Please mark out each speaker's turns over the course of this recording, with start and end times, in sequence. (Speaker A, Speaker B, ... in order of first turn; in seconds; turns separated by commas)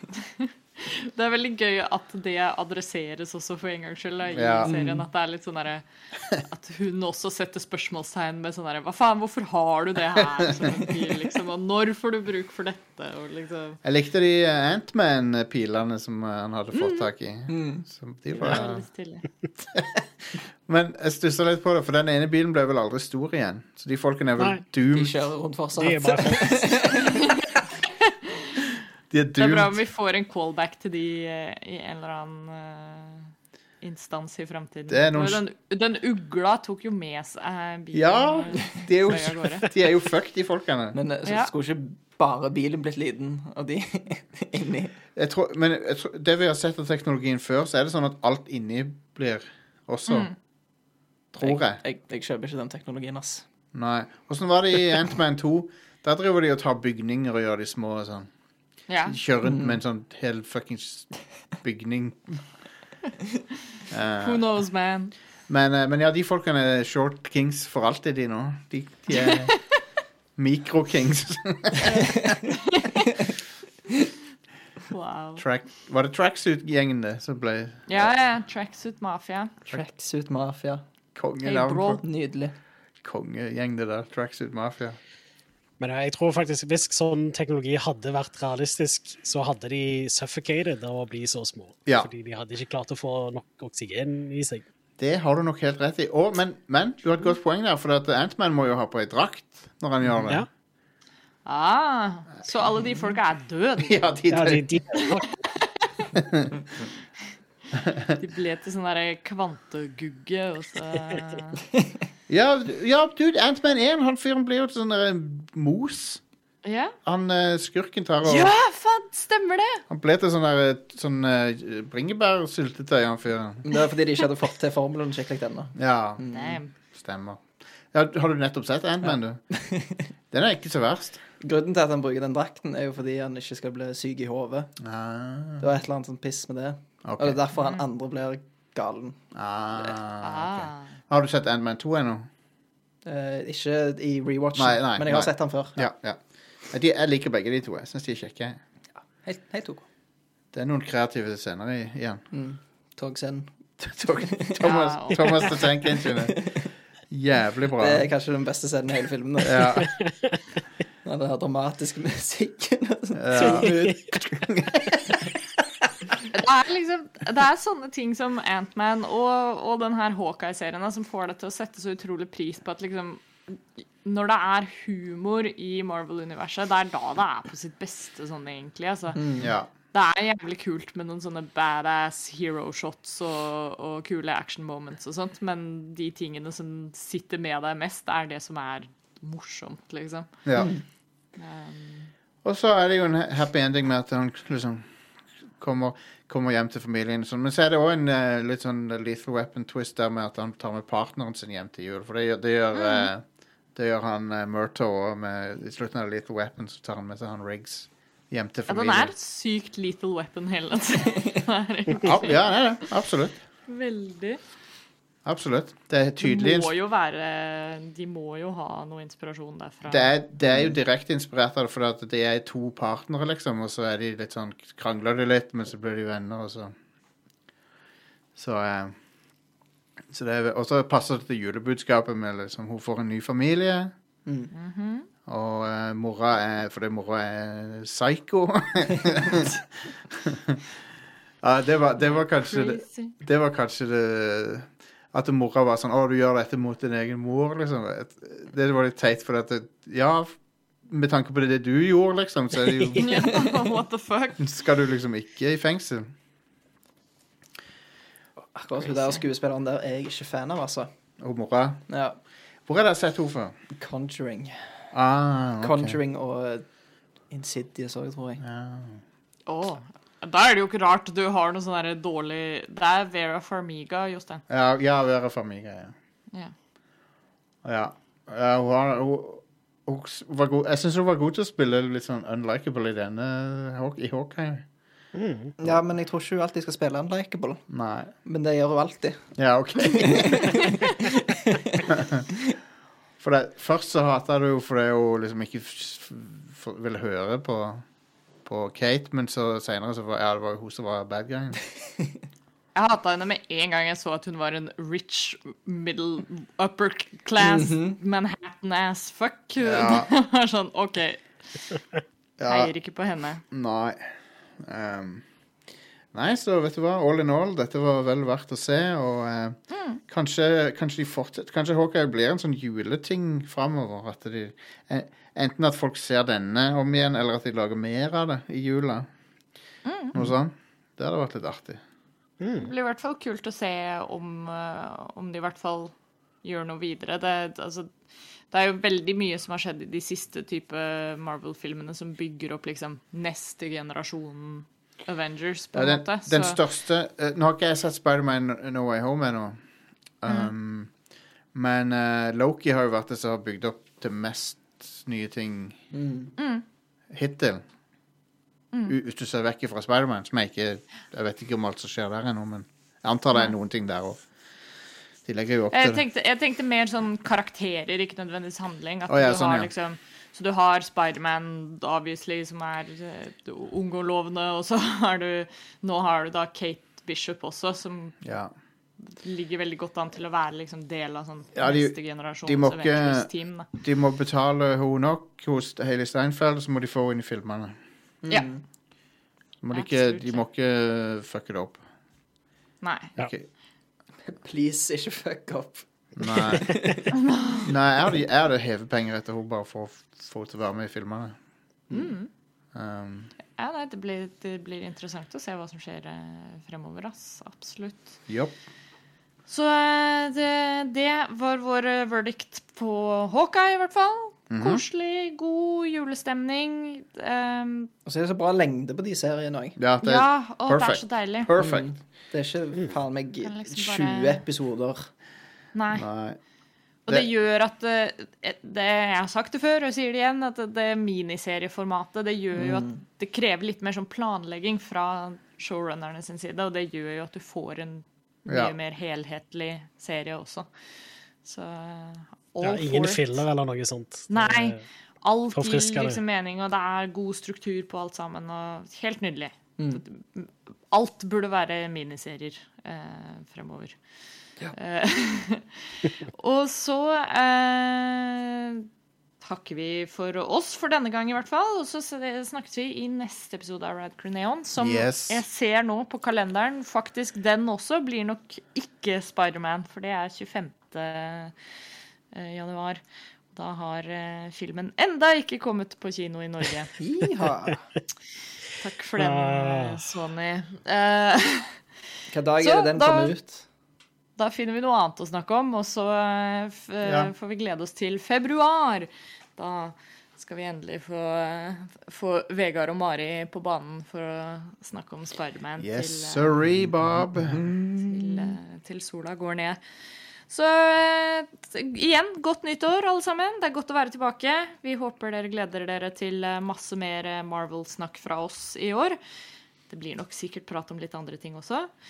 Speaker A: 0.4-13.8, Speaker B: 4.3-4.8, Speaker C: 4.6-5.0, Speaker B: 13.8-18.9, Speaker A: 16.7-17.1, Speaker C: 17.5-17.8, Speaker A: 18.4-19.2, Speaker B: 19.6-25.1, Speaker D: 24.4-24.6, Speaker C: 24.9-27.3, Speaker D: 25.8-26.9, Speaker A: 28.0-28.6, Speaker B: 29.1-29.8, Speaker A: 29.4-39.7, Speaker B: 34.9-35.4, Speaker B: 37.9-41.0, Speaker C: 40.9-44.9, Speaker A: 41.2-41.5, Speaker B: 45.1-50.3, Speaker A: 50.1-50.3, Speaker B: 51.3-51.8, Speaker C: 51.4-53.4, Speaker B: 53.7-58.3, Speaker A: 58.9-59.2, Speaker B: 59.1-62.5, Speaker C: 59.4-59.8, Speaker B: 63.9-64.4, Speaker A: 64.2-65.1, Speaker B: 65.5-69.8, Speaker A: 69.1-69.6, Speaker B: 70.3-71.8, Speaker A: 71.8-73.1, Speaker A: 74.9-75.4, Speaker B: 75.4-78.0, Speaker A: 77.9-79.5, Speaker C: 79.7-80.8, Speaker B: 81.1-82.0, Speaker A: 81.4-82.0, Speaker C: 82.0-82.5, Speaker B: 83.0-85.0, Speaker D: 85.8-94.7, Speaker B: 95.0-100.4, Speaker A: 101.4-104.0, Speaker B: 103.8-104.7, Speaker D: 104.3-105.3, Speaker A: 105.0-106.1, Speaker B: 106.1-106.5, Speaker B: 107.7-108.1, Speaker A: 108.2-111.6, Speaker B: 112.3-116.2, Speaker A: 116.6-117.0, Speaker B: 117.0-118.5, Speaker A: 118.2-119.8, Speaker B: 119.9-123.7, Speaker C: 123.6-126.6, Speaker B: 125.8-126.2, Speaker A: 126.3-126.7, Speaker B: 126.8-129.6, Speaker C: 129.1-130.0, Speaker B: 130.3-131.2, Speaker C: 131.4-134.8, Speaker B: 134.8-135.7, Speaker C: 135.6-140.0, Speaker B: 137.0-137.4, Speaker A: 137.6-137.8, Speaker B: 139.3-142.3, Speaker A: 140.2-140.9, Speaker C: 143.0-145.9, Speaker B: 144.5-148.6, Speaker C: 149.0-149.8, Speaker B: 150.5-152.2, Speaker C: 152.3-154.6, Speaker B: 153.8-156.6, Speaker A: 154.6-155.6, Speaker C: 155.2-156.6, Speaker B: 157.1-158.1, Speaker C: 157.8-159.8, Speaker B: 159.4-159.9, Speaker D: 160.0-160.3, Speaker C: 161.0-164.2, Speaker B: 163.1-165.3, Speaker A: 166.3-179.2, Speaker C: 179.1-179.5, Speaker B: 179.4-179.7, Speaker A: 179.9-190.3, Speaker B: 190.4-190.7, Speaker C: 190.5-190.8, Speaker A: 191.3-192.1, Speaker B: 192.4-194.9, Speaker B: 195.5-209.1, Speaker A: 202.7-203.1, Speaker A: 208.7-212.6, Speaker B: 212.0-213.4, Speaker A: 213.7-214.4, Speaker B: 215.2-216.7, Speaker A: 216.2-220.1, Speaker B: 219.9-226.7, Speaker B: 228.3-228.9, Speaker B: 230.1-233.9, Speaker A: 234.5-235.1, Speaker B: 235.2-240.6, Speaker B: 241.4-253.1, Speaker A: 242.0-243.1, Speaker A: 252.9-254.4, Speaker B: 254.4-256.1, Speaker C: 258.4-260.9, Speaker A: 258.8-259.2, Speaker B: 261.2-261.9, Speaker C: 261.9-262.2, Speaker B: 262.6-263.5, Speaker C: 263.7-264.9, Speaker B: 264.9-266.0, Speaker C: 265.6-266.7, Speaker C: 267.3-268.4, Speaker B: 268.4-269.0, Speaker A: 269.4-274.4, Speaker B: 274.5-275.9, Speaker B: 277.6-284.7, Speaker D: 285.1-285.5, Speaker C: 285.6-291.9, Speaker B: 287.7-288.1, Speaker B: 289.4-290.6, Speaker B: 291.9-292.2, Speaker B: 293.2-297.9, Speaker B: 298.4-301.6, Speaker A: 302.7-311.2, Speaker C: 307.4-308.0, Speaker B: 309.6-310.1, Speaker B: 312.4-312.7, Speaker A: 312.4-313.4, Speaker B: 313.5-315.2, Speaker B: 316.1-329.1, Speaker A: 319.7-320.0, Speaker A: 329.8-330.1, Speaker B: 330.1-331.8, Speaker D: 332.4-332.7, Speaker A: 332.6-337.9, Speaker A: 338.5-346.6, Speaker B: 345.7-349.6, Speaker B: 350.2-351.0, Speaker B: 351.5-355.8, Speaker C: 355.9-356.3, Speaker A: 356.4-356.6, Speaker B: 357.1-357.6, Speaker B: 358.9-364.2, Speaker B: 365.2-366.0, Speaker A: 365.7-378.2, Speaker B: 369.1-369.7, Speaker B: 378.2-378.5, Speaker A: 379.1-383.7, Speaker B: 381.5-387.7, Speaker C: 388.2-388.6, Speaker B: 389.6-391.8, Speaker A: 389.7-390.4, Speaker A: 392.8-393.1, Speaker B: 393.2-393.4, Speaker C: 394.2-397.1, Speaker B: 396.1-401.3, Speaker A: 397.2-397.6, Speaker C: 401.9-402.1, Speaker A: 401.9-402.3, Speaker B: 402.7-403.3, Speaker A: 403.6-408.2, Speaker A: 409.5-417.9, Speaker B: 414.5-414.8, Speaker C: 418.0-419.8, Speaker B: 419.8-421.9, Speaker A: 420.0-421.5, Speaker C: 421.6-425.1, Speaker A: 423.4-424.4, Speaker A: 425.7-426.0, Speaker B: 425.9-426.4, Speaker A: 427.1-440.7, Speaker C: 432.5-433.0, Speaker B: 438.5-438.7, Speaker A: 441.4-443.4, Speaker D: 442.6-444.8, Speaker A: 444.3-454.0, Speaker D: 445.5-446.2, Speaker C: 449.8-450.0, Speaker A: 454.7-458.9, Speaker A: 459.4-471.5, Speaker B: 464.8-465.4, Speaker A: 472.3-476.9, Speaker C: 477.0-477.8, Speaker A: 478.8-481.8, Speaker D: 479.2-480.0, Speaker C: 482.3-483.6, Speaker A: 482.6-483.3, Speaker A: 484.4-496.5, Speaker B: 487.0-487.3, Speaker B: 495.8-497.7, Speaker C: 497.4-498.5, Speaker A: 498.1-499.8, Speaker A: 500.5-509.2, Speaker A: 509.9-511.9